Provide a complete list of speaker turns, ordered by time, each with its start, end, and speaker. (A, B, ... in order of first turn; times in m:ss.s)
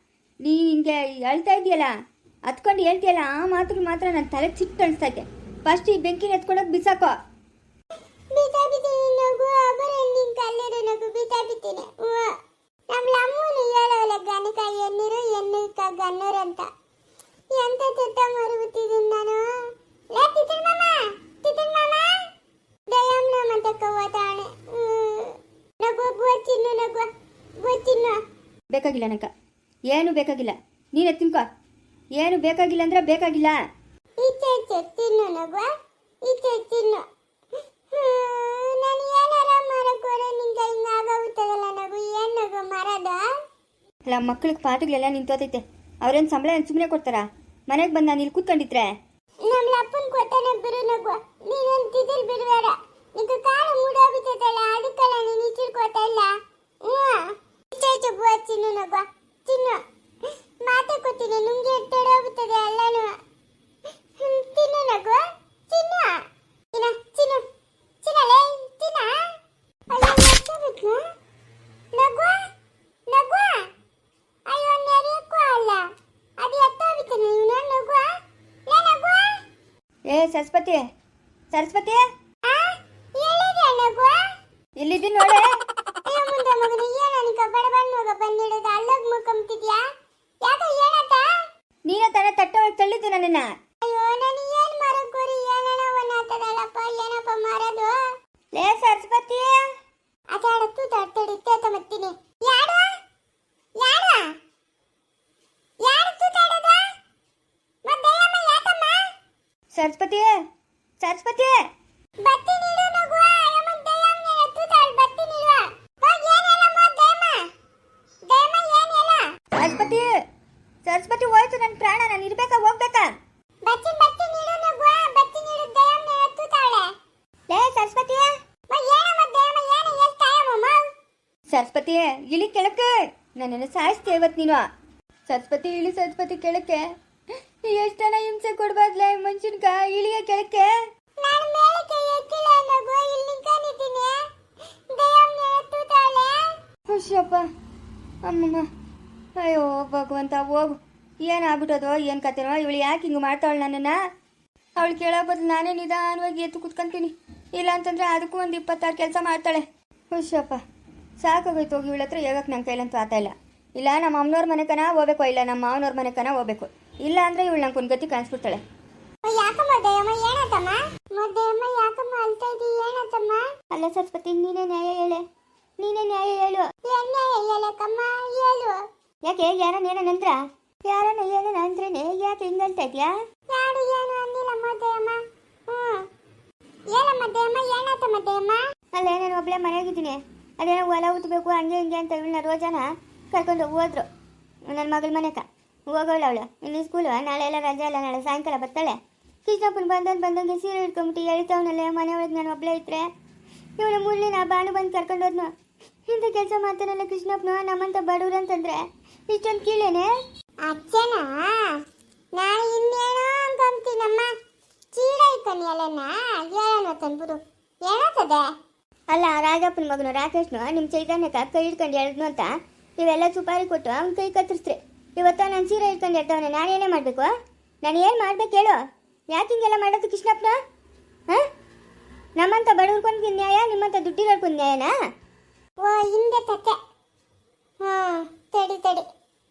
0:00.4-0:01.9 A
0:02.5-0:07.1 A
0:08.3-0:12.3 B
0:12.9-0:16.7 B
0:17.5-0:19.4 B
0:20.1-0:22.1 B
0:22.9-0:27.1 B
0:27.6-0:28.2 B
0:28.7-0:29.3 A
0:29.9-0:31.4 A
0:32.2-0:33.6 A
0:34.2-0:35.7 B
0:36.2-0:37.0 B
0:37.9-0:43.2 B
0:44.1-0:48.9 A
0:49.4-0:59.8 B
1:00.6-1:03.2 B
1:04.2-1:07.5 B
1:08.0-1:09.3 B
1:09.9-1:11.0 B
1:11.9-1:12.4 B
1:13.1-1:13.7 B
1:14.5-1:15.8 B
1:16.4-1:18.1 B
1:18.7-1:19.3 B
1:20.1-1:20.8 A
1:21.5-1:22.0 A
1:22.5-1:24.2 B
1:24.8-1:25.4 A
1:26.0-1:29.8 B
1:30.4-1:31.2 B
1:31.9-1:33.5 A
1:33.8-1:38.0 B
1:38.5-1:39.6 A
1:40.3-1:42.9 B
1:43.8-1:44.3 B
1:45.8-1:46.8 B
1:47.8-1:49.0 B
1:49.8-1:50.3 A
1:51.0-1:51.5 A
1:52.2-1:57.4 B
1:58.2-1:59.2 B
1:59.6-2:00.1 A
2:00.8-2:03.1 A
2:03.6-2:06.9 B
2:07.5-2:08.3 A
2:08.7-2:10.8 B
2:11.5-2:14.6 A
2:15.3-2:16.8 A
2:17.6-2:20.7 A
2:21.2-2:24.2 B
2:24.9-2:26.5 B
2:26.9-2:27.4 A
2:28.2-2:28.7 A
2:29.4-2:34.0 A
2:34.8-2:40.6 A
2:41.2-2:48.6 A
2:49.2-2:53.4 B
2:53.7-2:55.2 A
2:55.8-2:56.7 A
2:56.8-2:58.8 B
2:59.3-3:00.4 A
3:00.9-3:03.1 A
3:03.5-3:06.0 B
3:06.9-3:08.6 B
3:08.9-3:14.0 A
3:14.7-3:23.1 A
3:23.8-3:25.5 A
3:26.1-3:30.1 A
3:30.6-3:31.8 B
3:32.3-3:34.3 B
3:34.9-3:38.5 B
3:39.1-3:47.3 A
3:47.8-3:48.8 A
3:49.3-3:50.5 A
3:52.4-3:54.9 A
3:55.8-3:56.8 B
3:57.8-3:59.0 B